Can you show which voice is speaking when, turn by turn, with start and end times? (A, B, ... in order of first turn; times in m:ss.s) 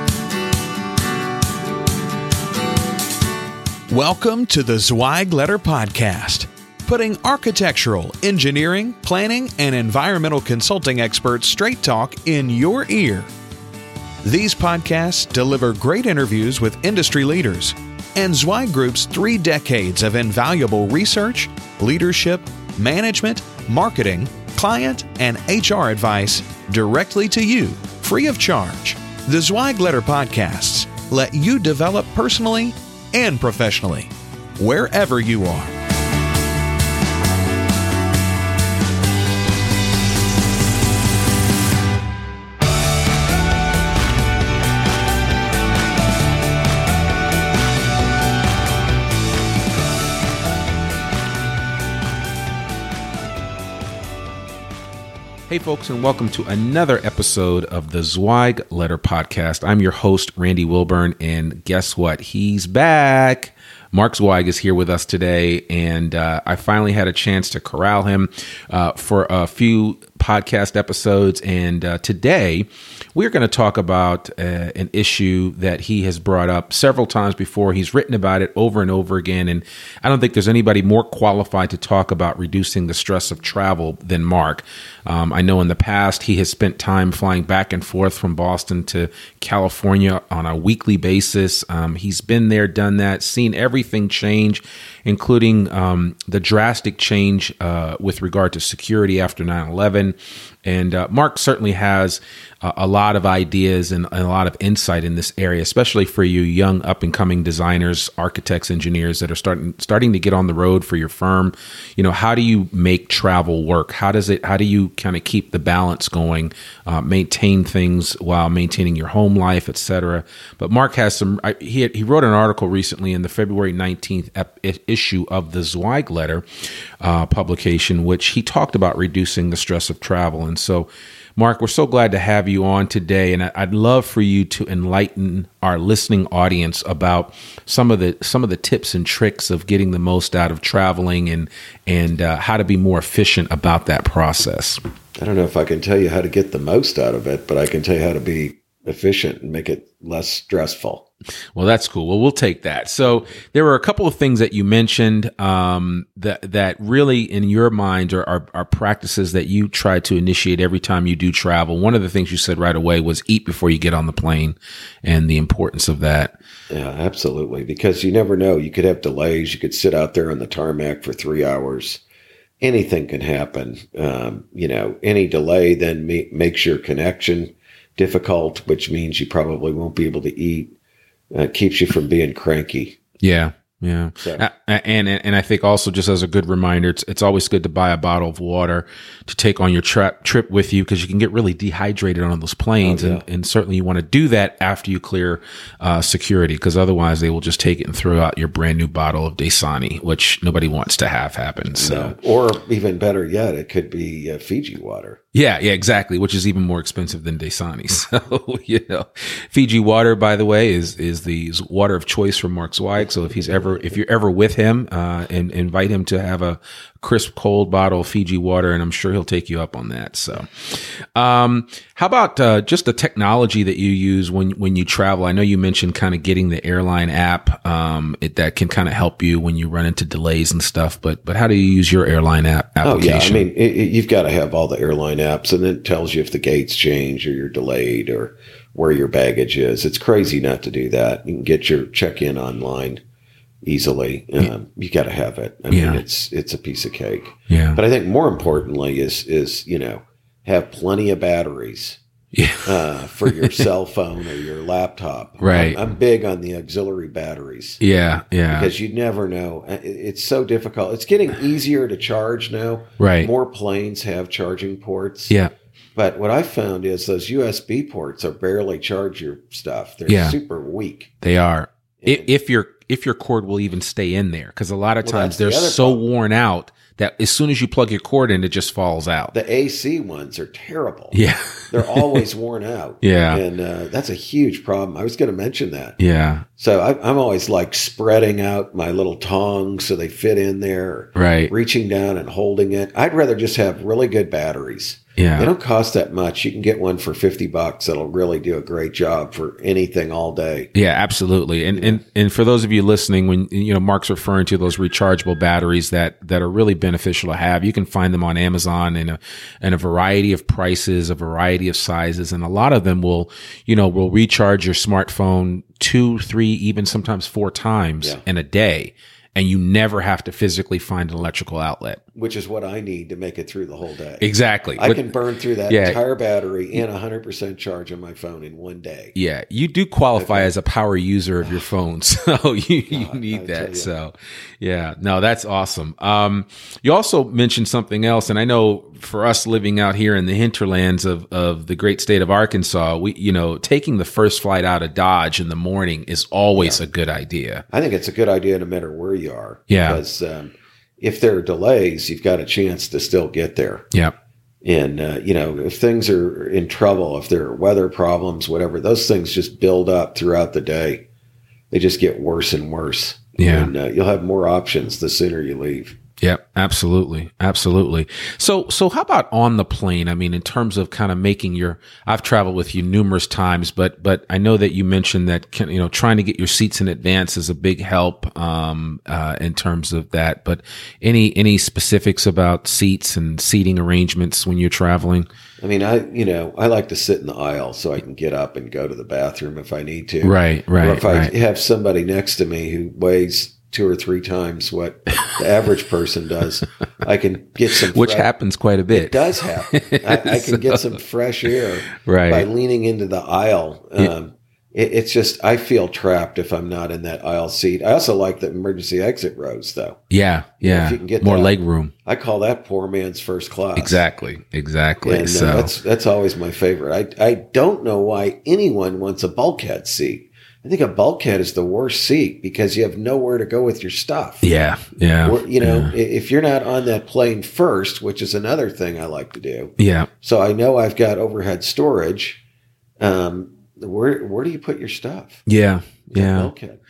0:03.9-0:13.3 A
0:14.2-0:35.7 A
0:55.5-2:06.4 B
2:07.0-2:24.8 B
2:25.2-2:31.0 C
2:31.6-2:46.4 B
2:46.7-2:52.0 C
2:52.6-3:00.7 C
3:01.3-3:03.0 C
3:03.2-3:22.1 B
3:04.2-3:04.4 C
3:12.8-3:13.2 C
3:21.7-3:25.2 C
3:25.3-3:53.4 B
3:33.0-3:34.0 C
3:52.8-4:03.0 C
4:03.6-4:12.0 C
4:05.7-4:06.0 B
4:07.5-4:07.8 B
4:12.3-4:12.7 B
4:12.6-4:17.8 C
4:13.2-4:13.6 B
4:15.4-4:15.8 B
4:17.8-4:18.7 B
4:18.5-4:25.3 C
4:23.0-4:23.3 B
4:25.9-4:31.1 C
4:30.1-4:30.4 B
4:31.2-4:39.3 B
4:32.0-4:32.3 C
4:35.0-4:36.0 C
4:39.3-4:41.2 C
4:41.1-4:42.2 B
4:41.7-4:46.0 C
4:43.0-4:43.4 B
4:46.0-4:46.4 B
4:46.6-5:00.7 C
4:51.2-4:51.5 B
4:55.2-4:55.5 B
5:00.7-5:22.0 B
5:01.8-5:02.0 C
5:22.1-5:29.1 C
5:24.2-5:25.1 B
5:25.7-5:26.0 B
5:29.1-5:47.6 B
5:30.1-5:30.5 C
5:32.9-5:33.9 C
5:46.5-5:46.8 C
5:47.7-5:53.8 C
5:49.7-5:50.0 B
5:54.6-6:01.0 C
6:01.7-6:06.0 C
6:03.4-6:03.7 B
6:06.2-6:25.3 B
6:25.6-6:38.3 C
6:30.2-6:31.3 B
6:37.9-6:40.9 B
6:38.9-6:50.0 C
6:42.0-6:42.5 B
6:50.1-6:51.9 B
6:50.6-6:51.5 C
6:52.0-6:54.0 C
6:53.8-6:55.7 B
6:55.0-7:04.4 C
7:04.4-7:05.9 B
7:05.2-7:12.4 C
7:09.8-7:10.1 B
7:13.0-7:15.4 C
7:15.4-7:16.5 B
7:16.1-7:16.8 C